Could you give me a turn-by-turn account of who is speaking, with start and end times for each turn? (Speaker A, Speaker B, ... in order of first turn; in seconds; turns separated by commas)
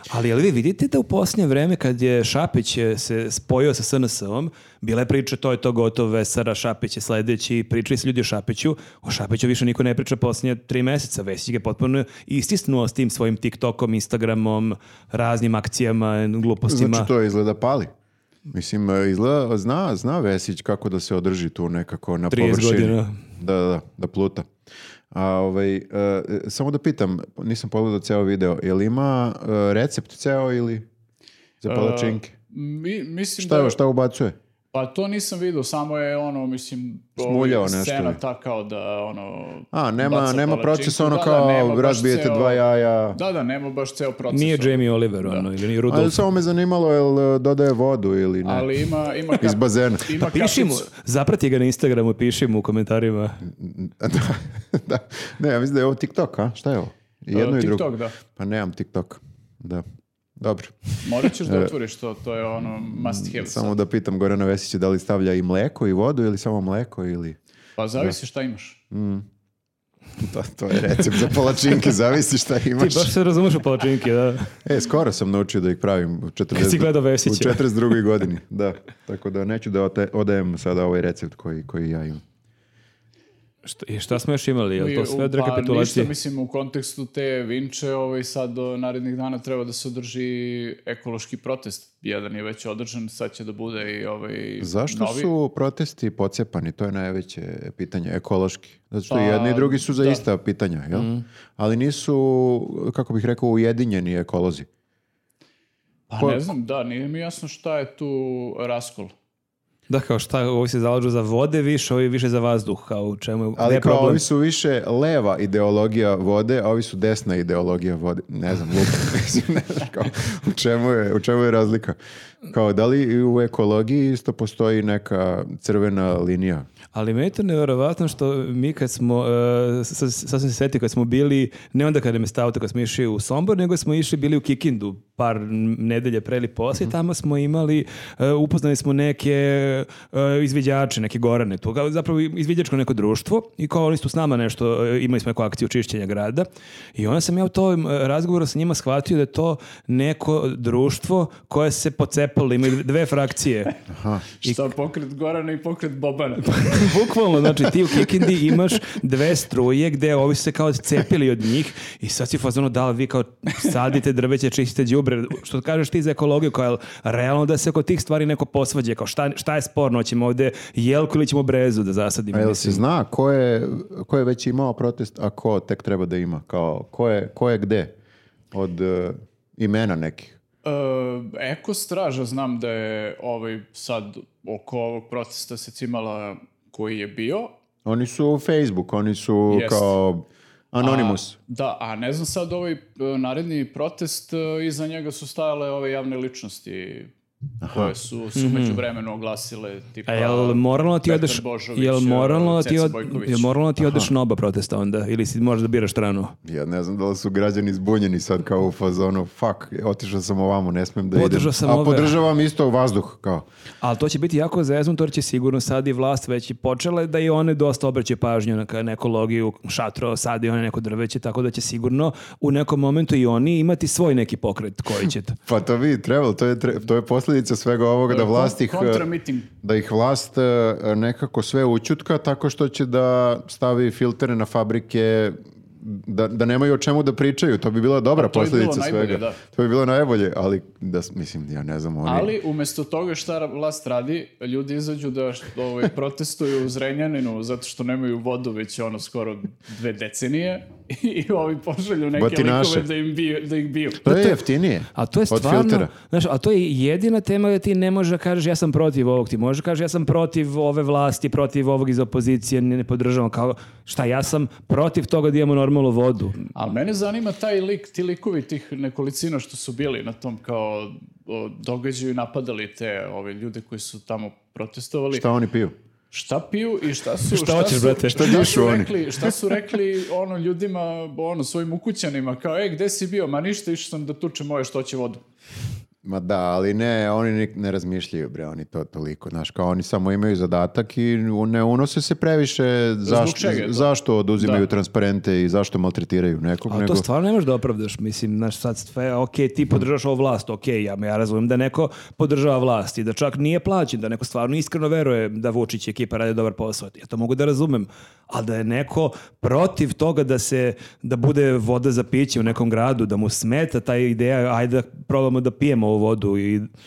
Speaker A: 0.1-17.1, Speaker B: 16.7-17.9, Speaker B: 18.5-24.5, Speaker A: 22.3-23.2, Speaker B: 25.1-30.9, Speaker B: 31.6-32.3, Speaker C: 31.7-33.8, Speaker B: 33.4-34.4, Speaker C: 34.7-42.6, Speaker B: 37.2-38.2, Speaker B: 39.7-43.2, Speaker C: 43.1-45.5, Speaker A: 44.3-46.2, Speaker B: 45.9-48.7, Speaker C: 48.4-50.9, Speaker B: 49.4-50.1, Speaker A: 50.1-53.4, Speaker B: 53.5-59.8, Speaker C: 57.3-58.2, Speaker B: 60.4-61.7, Speaker C: 61.0-63.8, Speaker B: 62.9-67.4, Speaker C: 67.8-68.8, Speaker B: 68.9-69.3, Speaker B: 70.2-73.1, Speaker A: 72.8-74.6, Speaker B: 74.7-82.2, Speaker A: 76.5-77.8, Speaker A: 83.7-86.1, Speaker C: 84.8-95.3, Speaker B: 94.6-104.7, Speaker C: 99.1-100.2, Speaker A: 100.9-101.2, Speaker C: 106.1-109.1, Speaker B: 106.2-106.5, Speaker A: 109.9-114.2, Speaker B: 113.6-126.7, Speaker A: 126.9-153.8, Speaker B: 153.9-154.4, Speaker C: 154.4-156.9, Speaker A: 156.4-172.8, Speaker B: 172.3-177.9, Speaker B: 178.5-180.4, Speaker C: 180.7-187.5, Speaker B: 187.8-191.4, Speaker C: 189.5-190.0, Speaker C: 190.8-197.1, Speaker B: 197.6-197.9, Speaker C: 197.7-203.5, Speaker A: 198.4-198.8, Speaker A: 200.1-206.3, Speaker B: 203.8-204.1, Speaker B: 206.4-213.5, Speaker A: 211.1-212.2, Speaker A: 213.8-225.4, Speaker B: 225.5-229.1, Speaker C: 228.1-229.5, Speaker B: 229.6-242.3, Speaker C: 238.2-239.4, Speaker C: 242.1-254.3, Speaker B: 252.2-252.9, Speaker B: 254.0-255.9, Speaker A: 255.0-266.5, Speaker C: 266.6-275.2, Speaker B: 275.1-275.8, Speaker C: 276.1-285.2, Speaker A: 277.3-278.4, Speaker B: 278.1-278.9, Speaker B: 286.0-297.1, Speaker C: 293.1-294.6, Speaker A: 296.7-316.7